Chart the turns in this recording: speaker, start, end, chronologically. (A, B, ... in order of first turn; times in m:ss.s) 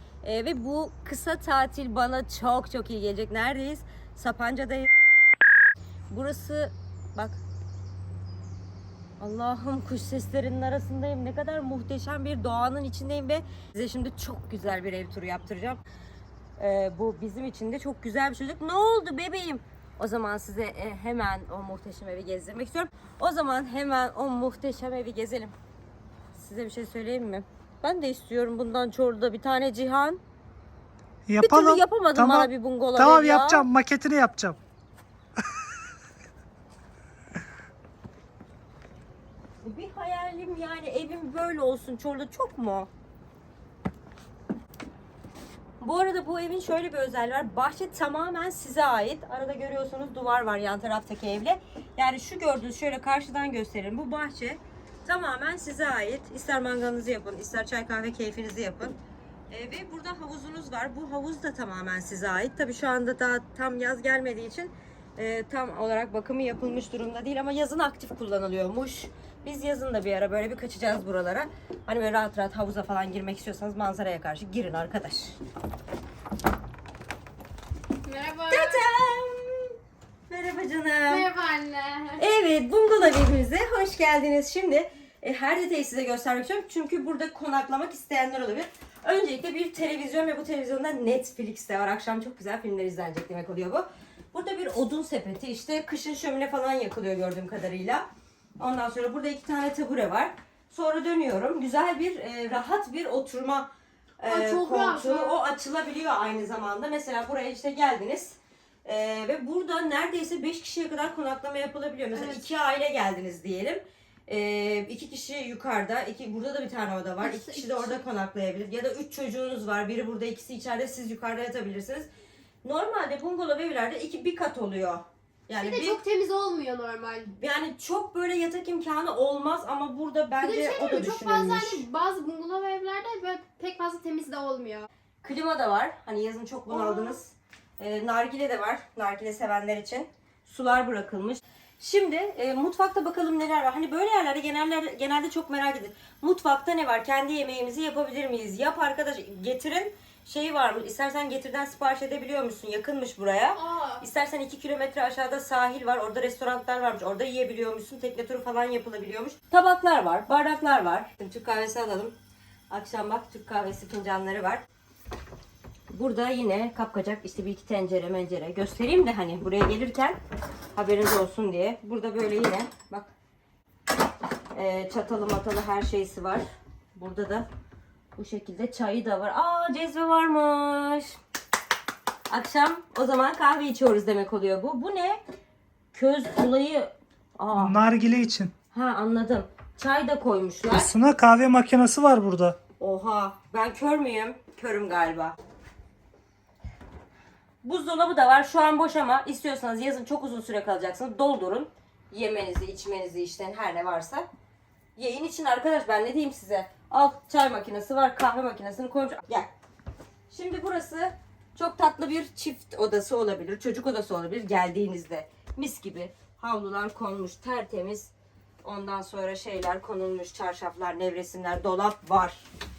0:00.2-0:04.9 A
0:06.1-0:07.4 A
0:09.2-0:15.8 A
0:16.6-0:25.5 A
0:26.3-0:30.2 A
0:31.3-0:34.6 B
0:31.4-0:33.7 A
0:39.6-0:42.9 A
0:45.8-0:59.0 A
0:59.5-1:15.4 A
1:18.0-1:18.9 C
1:18.5-1:19.8 A
1:20.3-1:21.3 A
1:21.1-1:22.2 C
1:22.2-1:38.0 A
1:38.6-2:02.1 A
1:44.2-1:45.4 C
1:52.1-1:52.4 C
1:57.2-1:58.0 C
2:02.6-2:06.0 A
2:05.6-2:07.3 C
2:07.3-2:11.8 A
2:10.4-2:14.9 C
2:15.2-2:42.1 A
2:16.7-2:17.2 C
2:33.6-2:34.0 C
2:42.7-2:44.6 A
2:45.9-2:50.2 A
2:50.7-2:53.1 A
2:54.5-2:57.5 A
2:58.2-3:01.2 A
3:02.3-3:05.2 A
3:05.9-3:07.8 A
3:07.6-3:08.5 B
3:08.7-3:10.9 A
3:10.7-3:12.6 B
3:12.8-3:15.4 A
3:17.6-3:24.3 A
3:25.0-3:29.5 A
3:30.3-3:38.1 A
3:38.6-3:42.4 A